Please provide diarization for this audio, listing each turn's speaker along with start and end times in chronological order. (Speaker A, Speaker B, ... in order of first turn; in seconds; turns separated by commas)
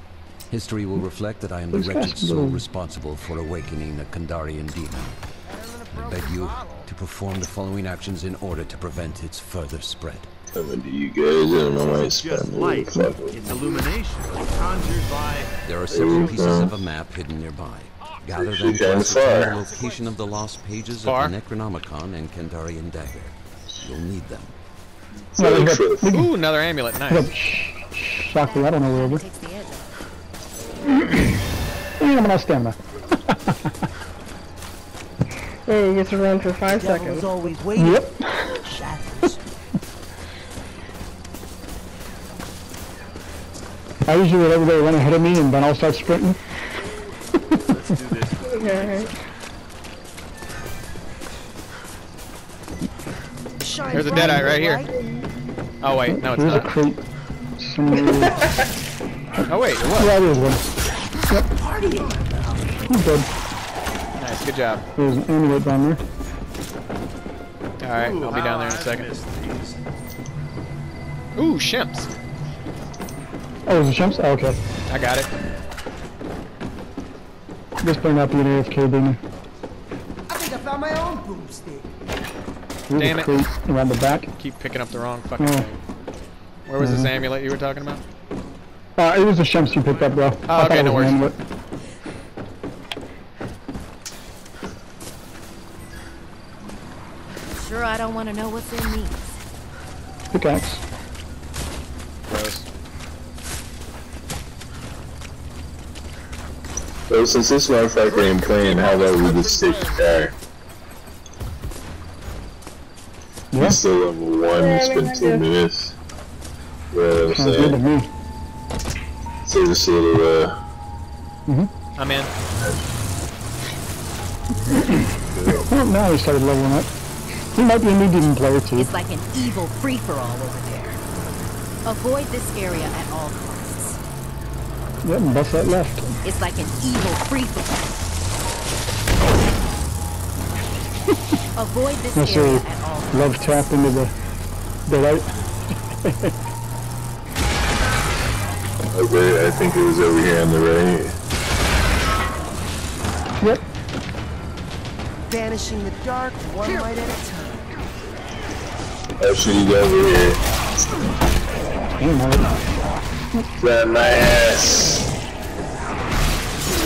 Speaker A: 0.5-5.2, Speaker B: 1.7-2.6, Speaker C: 5.5-6.9, Speaker A: 5.9-10.3, Speaker D: 10.5-13.8, Speaker E: 11.6-16.8, Speaker A: 15.7-24.5, Speaker D: 15.9-16.7, Speaker D: 18.4-19.6, Speaker F: 21.0-21.3, Speaker D: 25.4-26.1, Speaker B: 25.4-26.3, Speaker F: 26.1-27.3, Speaker B: 27.1-29.2, Speaker G: 28.3-30.0, Speaker B: 30.9-31.3, Speaker B: 32.0-33.9, Speaker H: 35.7-37.3, Speaker C: 36.7-39.4, Speaker B: 37.8-38.6, Speaker B: 44.1-46.4, Speaker E: 47.5-49.1, Speaker H: 48.5-49.1, Speaker C: 53.6-54.9, Speaker F: 53.9-54.9, Speaker H: 54.9-55.3, Speaker F: 55.8-56.7, Speaker B: 56.1-57.0, Speaker B: 57.6-58.4, Speaker H: 57.9-58.5, Speaker F: 59.5-60.1, Speaker B: 60.0-60.6, Speaker C: 61.6-62.8, Speaker B: 62.9-63.3, Speaker F: 64.2-64.8, Speaker B: 65.0-66.0, Speaker F: 67.8-69.1, Speaker E: 67.9-69.8, Speaker F: 71.4-72.1, Speaker B: 73.7-74.6, Speaker F: 74.9-75.3, Speaker B: 77.8-79.2, Speaker C: 80.3-81.9, Speaker B: 82.9-84.3, Speaker F: 83.0-83.3, Speaker F: 84.3-85.8, Speaker B: 85.4-85.7, Speaker F: 86.7-88.0, Speaker B: 86.8-87.1, Speaker B: 89.0-91.4, Speaker E: 89.6-90.3, Speaker F: 90.5-91.2, Speaker G: 97.5-99.4, Speaker B: 100.3-100.8, Speaker F: 102.3-102.7, Speaker D: 107.1-110.3, Speaker E: 108.1-109.7, Speaker B: 113.5-113.8, Speaker D: 113.6-116.0, Speaker H: 114.4-115.5, Speaker D: 116.9-117.8, Speaker B: 117.3-118.1, Speaker D: 119.5-120.6, Speaker F: 122.0-122.3, Speaker D: 125.2-125.7, Speaker B: 125.6-126.9, Speaker B: 127.5-128.9, Speaker G: 128.7-131.0, Speaker G: 131.8-134.0, Speaker B: 135.0-136.2, Speaker G: 136.2-138.0, Speaker G: 141.6-143.5, Speaker B: 142.2-144.1, Speaker B: 144.9-145.3, Speaker B: 145.9-146.3, Speaker D: 148.9-151.1, Speaker C: 155.3-157.7, Speaker D: 159.2-160.4, Speaker B: 162.0-162.5, Speaker D: 163.6-165.1